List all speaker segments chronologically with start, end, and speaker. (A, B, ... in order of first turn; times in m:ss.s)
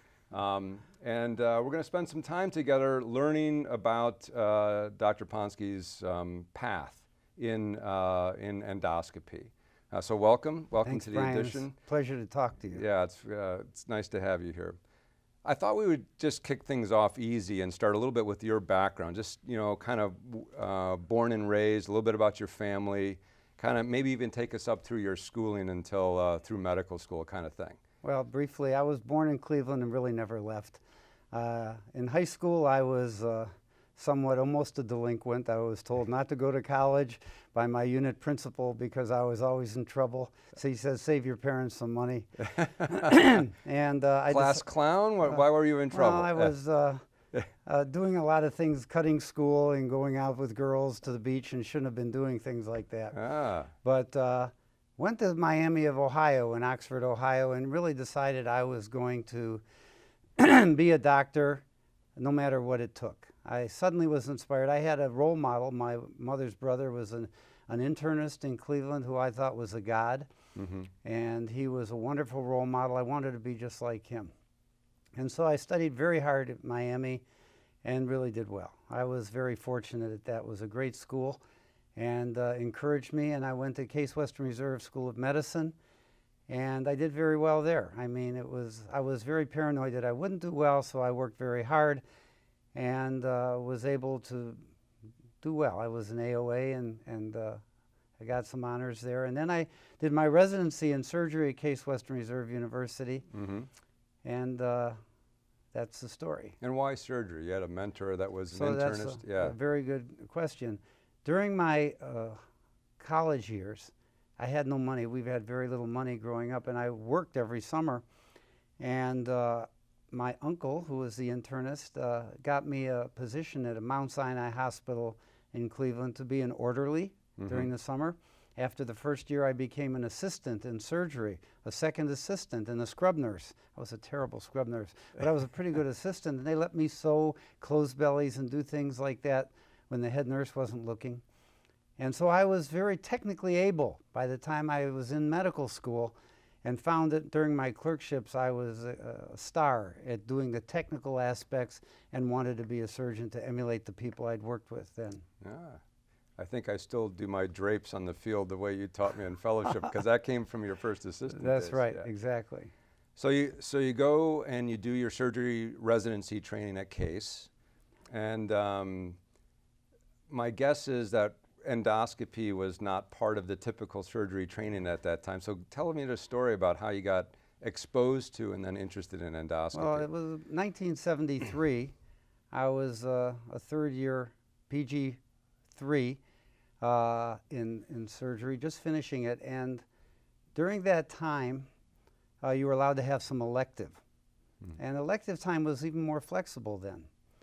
0:00.3-0:11.8 A
0:10.8-0:12.8 B
0:12.7-0:14.8 A
0:15.4-0:27.8 A
0:28.0-0:30.8 B
0:31.3-0:44.7 B
0:42.4-0:43.2 A
0:44.3-0:46.5 A
0:45.2-0:47.0 B
0:47.6-0:53.2 B
0:53.1-0:53.7 A
0:53.8-0:59.6 B
1:00.4-1:01.6 B
1:02.2-1:10.3 B
1:10.5-1:10.9 A
1:11.0-1:14.3 B
1:15.2-1:17.2 B
1:17.8-1:21.4 B
1:22.0-1:25.7 B
1:26.5-1:32.0 B
1:32.7-1:34.7 B
1:35.4-1:37.6 B
1:38.2-1:43.3 B
1:43.3-1:43.7 A
1:44.2-1:45.0 B
1:45.7-1:46.6 B
1:46.6-1:49.5 A
1:48.5-1:52.4 B
1:53.0-1:58.0 B
1:58.8-2:21.2 B
2:07.4-2:07.7 A
2:22.0-2:35.2 B
2:35.4-2:35.8 A
2:36.4-2:42.0 A
2:41.3-2:42.7 B
2:43.2-2:47.5 A
2:48.1-2:49.2 A
2:50.3-3:00.1 A
2:59.7-3:01.9 B
3:02.5-3:05.2 B
3:05.7-3:06.2 B
3:06.8-3:09.8 B
3:10.5-3:11.7 B
3:12.4-3:14.0 B
3:14.8-3:17.1 B